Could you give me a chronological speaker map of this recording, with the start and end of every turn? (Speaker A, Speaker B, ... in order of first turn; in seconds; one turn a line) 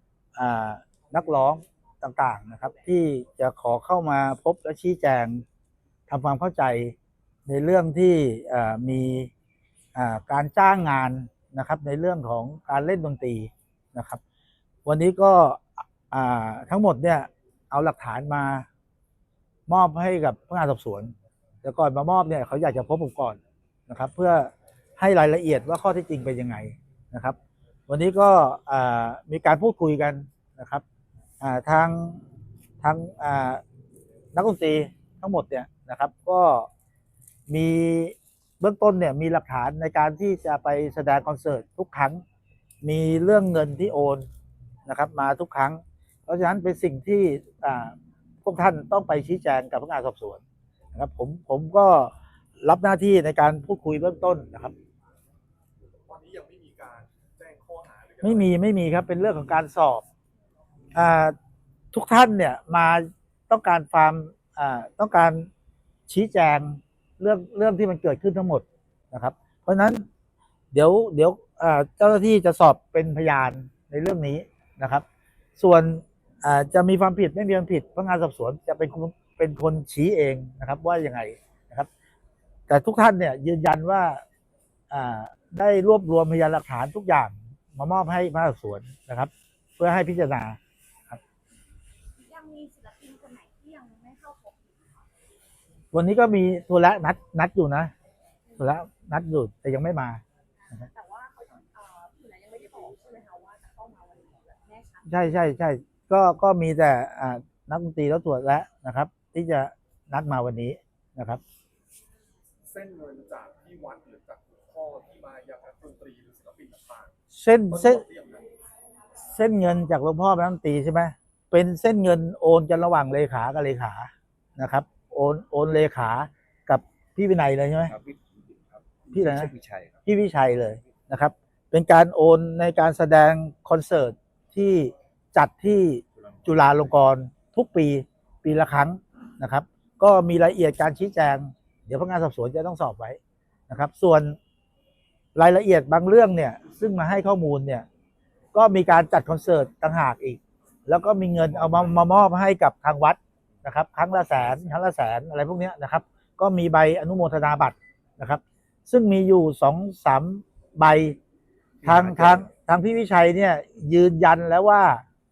Speaker A: 0.3-5.4
Speaker A: 6.1-6.9
Speaker A: 7.5-9.3
Speaker A: 9.9-14.2
Speaker A: 14.8-18.6
Speaker A: 19.7-27.4
Speaker A: 27.9-30.8
Speaker A: 31.4-32.2
Speaker A: 32.8-33.6
Speaker A: 34.3-36.7
Speaker A: 37.5-42.2
Speaker A: 42.8-44.2
Speaker A: 44.9-50.4
Speaker A: 50.9-54.7
Speaker B: 56.0-58.5
Speaker A: 58.2-60.0
Speaker A: 60.9-61.3
Speaker A: 61.9-65.5
Speaker A: 66.1-70.0
Speaker A: 70.7-75.0
Speaker A: 75.5-81.9
Speaker A: 82.7-84.2
Speaker A: 84.9-90.6
Speaker C: 92.2-95.0
Speaker A: 95.9-97.9
Speaker C: 98.5-98.7
Speaker A: 98.6-100.2
Speaker C: 100.7-105.0
Speaker A: 105.0-111.4
Speaker B: 112.7-117.1
Speaker A: 117.3-118.0
Speaker B: 117.7-118.5
Speaker A: 119.2-127.9
Speaker D: 127.9-130.0
Speaker A: 129.1-129.5
Speaker A: 130.0-144.4
Speaker D: 136.3-136.5
Speaker A: 145.3-147.8
Speaker A: 148.5-161.2
Speaker D: 151.5-151.9
Speaker D: 161.8-162.5
Speaker A: 161.8-165.0